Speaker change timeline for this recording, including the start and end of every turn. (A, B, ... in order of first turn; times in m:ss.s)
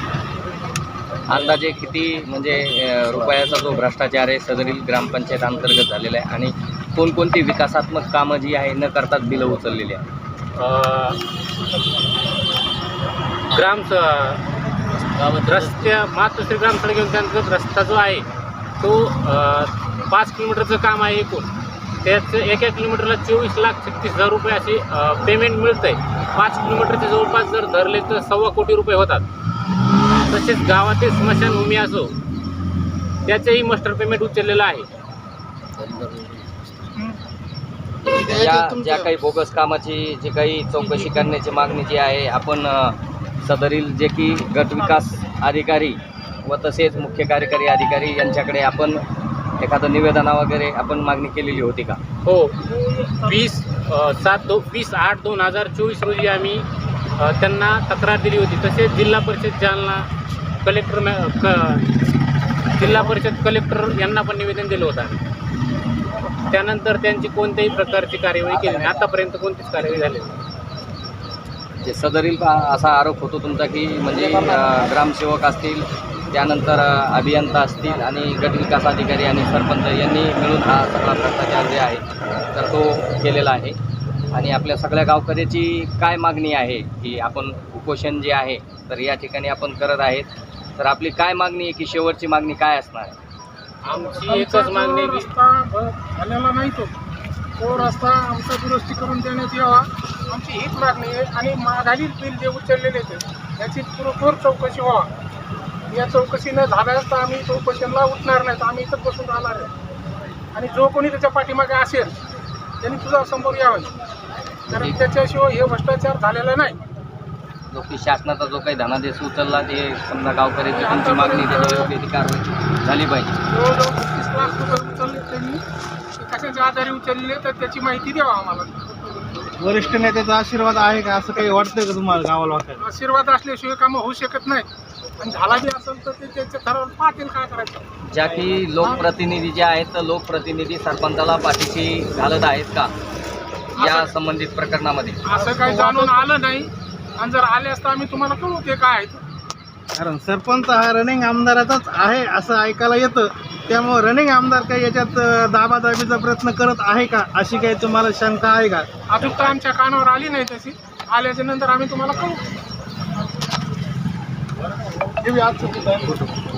0:01.3-0:10.0 A
0:10.6-0:11.2 B
0:13.5-0:14.4 B
0:15.1-0:18.2 B
0:18.8-0:21.5 B
0:22.0-0:29.2 B
0:30.3-0:32.1 B
0:33.2-0:34.8 B
0:38.1-0:49.0 A
0:49.6-0:52.0 A
0:52.2-0:56.6 B
0:57.2-1:00.1 B
1:00.6-1:01.8 B
1:02.7-1:05.2 B
1:06.5-1:10.3 B
1:11.8-1:23.8 A
1:24.3-1:33.1 A
1:33.8-1:35.3 B
1:34.2-1:36.9 C
1:37.6-1:45.1 C
1:45.9-1:49.7 C
1:50.5-1:52.1 C
1:52.8-1:53.9 C
1:54.7-1:56.8 C
1:57.7-2:03.3 A
2:00.7-2:01.9 C
2:03.5-2:05.6 C
2:06.2-2:09.1 C
2:09.6-2:12.9 D
2:12.8-2:17.8 C
2:18.0-2:22.9 A
2:18.8-2:19.1 C
2:23.8-2:24.1 C
2:23.8-2:25.2 A
2:25.2-2:29.2 C
2:25.7-2:26.0 D
2:29.9-2:38.9 D
2:39.1-2:42.4 C
2:45.2-2:46.3 C